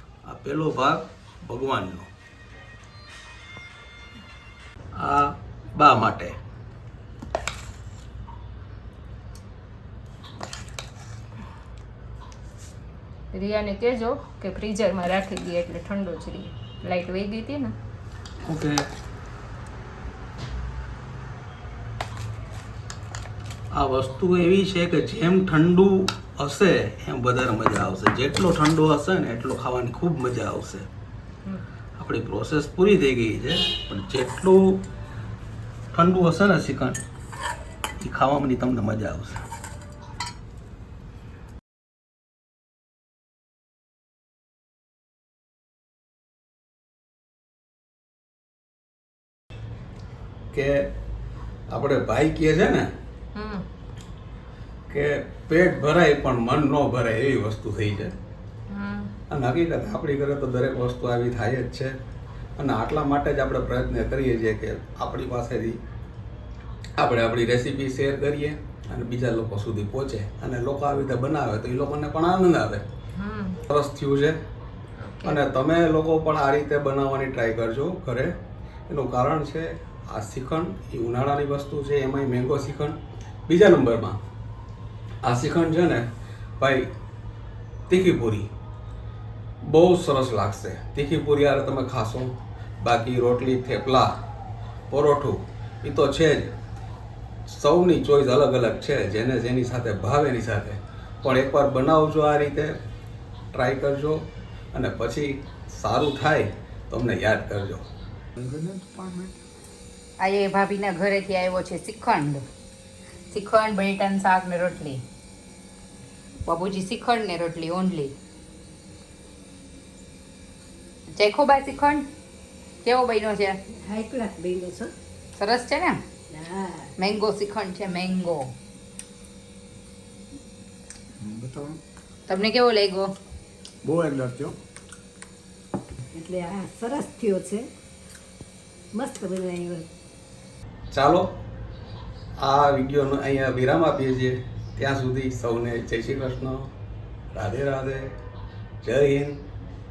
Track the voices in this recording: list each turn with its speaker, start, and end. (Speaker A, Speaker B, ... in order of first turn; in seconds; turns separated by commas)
Speaker A: 0.2-2.1, Speaker A: 4.9-6.4, Speaker B: 13.3-17.7, Speaker A: 18.4-18.8, Speaker A: 23.7-30.9, Speaker A: 32.0-34.8, Speaker A: 35.9-37.0, Speaker A: 38.0-39.4, Speaker A: 50.5-50.8, Speaker A: 51.7-52.9, Speaker B: 53.4-53.7, Speaker A: 54.9-58.1, Speaker B: 58.7-59.1, Speaker A: 59.3-61.9, Speaker A: 62.6-65.8, Speaker A: 67.0-72.8, Speaker B: 73.2-73.6, Speaker A: 73.7-74.4, Speaker B: 75.0-75.4, Speaker A: 75.2-78.3, Speaker A: 78.9-84.2, Speaker A: 85.2-86.1, Speaker A: 86.6-86.9, Speaker A: 87.9-88.5, Speaker A: 89.6-94.1, Speaker A: 94.9-96.5, Speaker A: 97.5-102.7, Speaker A: 103.5-107.9, Speaker C: 108.4-109.3, Speaker D: 110.2-112.4, Speaker D: 113.3-115.0, Speaker D: 116.5-118.1, Speaker D: 121.2-122.1, Speaker D: 122.8-123.6, Speaker E: 123.8-124.9, Speaker D: 125.4-126.0, Speaker E: 126.3-126.9, Speaker D: 127.0-128.5, Speaker C: 131.2-131.8, Speaker D: 132.3-133.1, Speaker C: 133.8-134.6, Speaker E: 136.1-137.7, Speaker E: 139.0-139.9, Speaker A: 140.9-141.3, Speaker A: 142.4-146.7, Speaker A: 147.3-148.1, Speaker A: 148.8-149.4